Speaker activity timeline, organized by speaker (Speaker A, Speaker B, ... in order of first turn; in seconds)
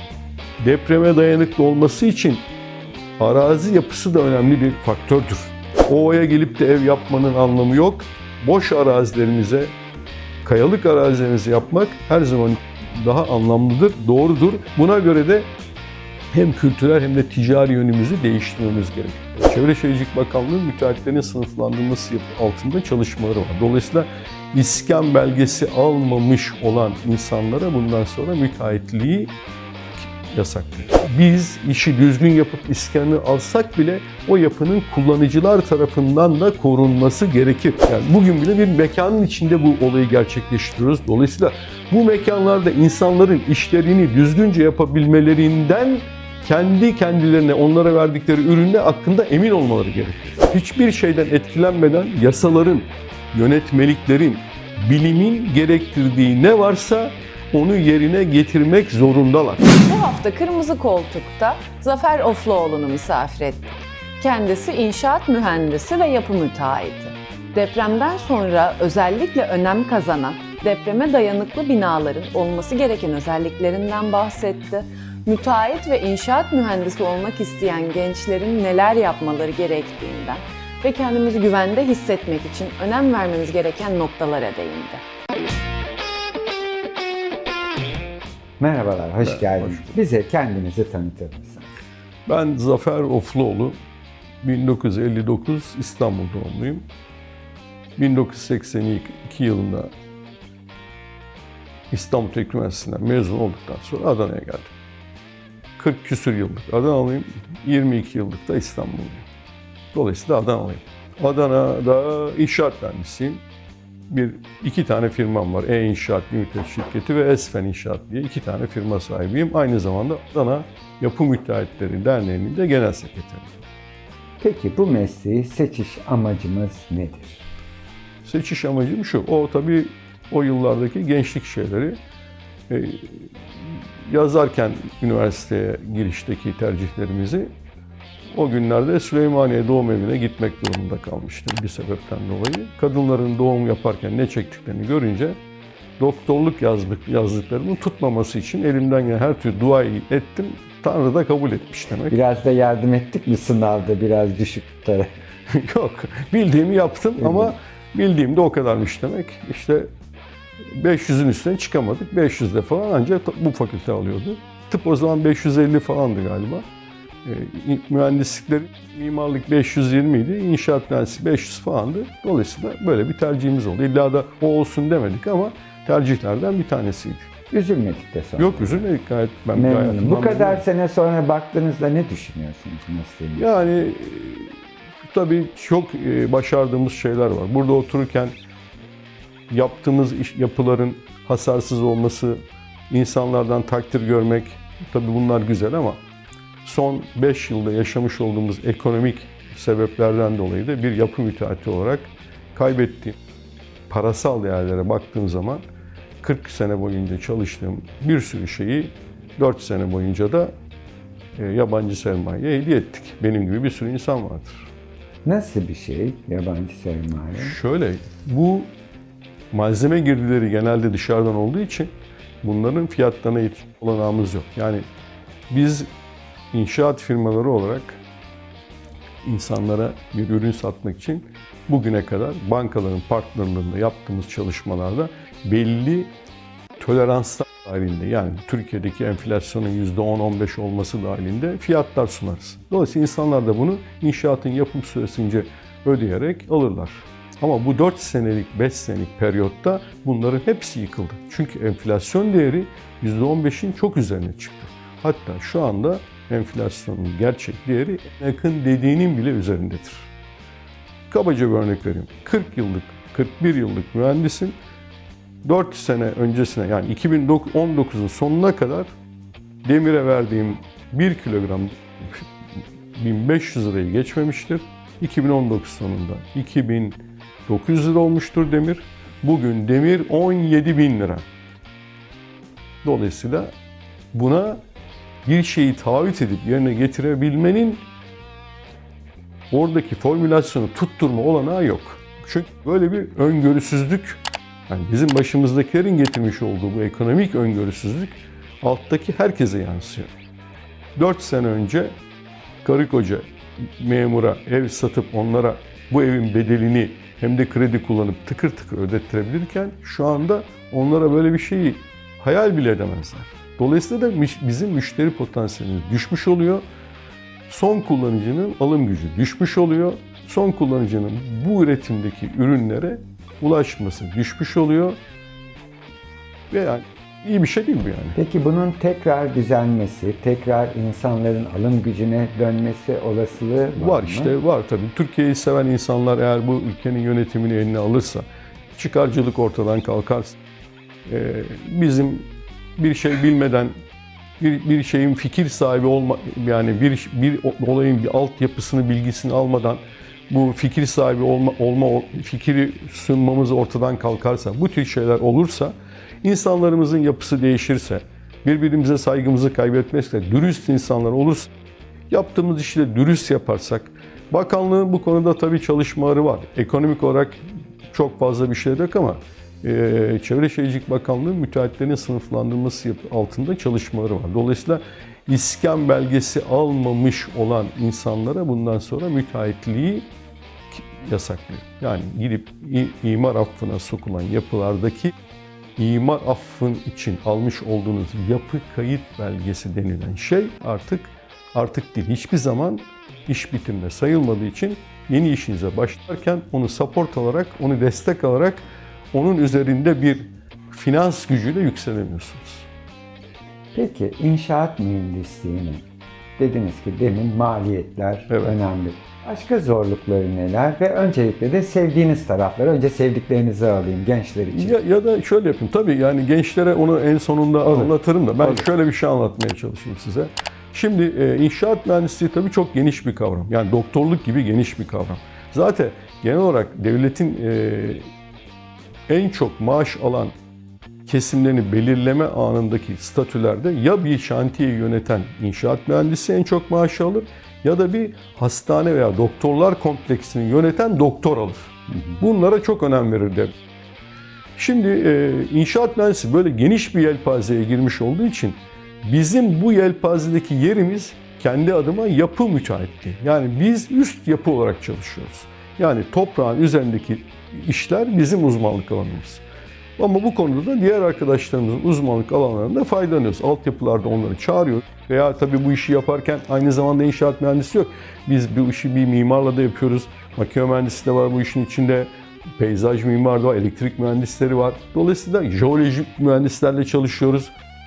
Speaker A: 0.6-2.5, 3.2-9.7, 10.4-15.5, 16.3-29.3, 30.0-59.7, 89.2-89.9, 92.3-93.8, 94.4-96.8, 98.0-99.9, 101.9-104.7, 105.8-109.2, 109.9-113.4, 114.1-123.5, 128.2-132.0, 132.7-137.5, 138.3-145.4, 146.0-152.2, 155.5-159.9, 160.7-166.7, 167.2-177.3, 178.4-180.7, 183.4-184.5, 185.1-188.3, 189.5-196.0, 196.6-203.2, 203.9-205.6, 206.2-210.5, 211.3-214.7, 217.4-218.7, 219.5-221.9, 222.4-224.8, 225.5-225.9, 226.5-228.0, 229.2-236.1, 236.8-260.1, 261.1-264.6, 265.4-268.9, 269.6-272.3, 272.9-281.2, 282.8-283.5, 284.1-284.6, 285.2-287.9, 289.5-300.1, 301.0-301.9, 302.6-316.6, 317.5-325.0, 326.5-328.2, 333.8-340.4, 341.1-343.7, 344.4-361.5, 362.1-380.1, 380.7-385.1, 385.8-402.7, 408.3-408.6, 414.5-428.1, 429.1-430.4, 431.1-443.6, 444.6-459.4, 460.0-477.5
Speaker B: 59.9-85.0
Speaker C: 88.6-91.7, 124.4-127.4, 152.1-155.1, 157.2-157.5, 177.5-178.8, 179.5-183.7, 215.2-217.6, 328.2-334.3, 403.7-405.9, 406.4-414.8, 417.7-417.9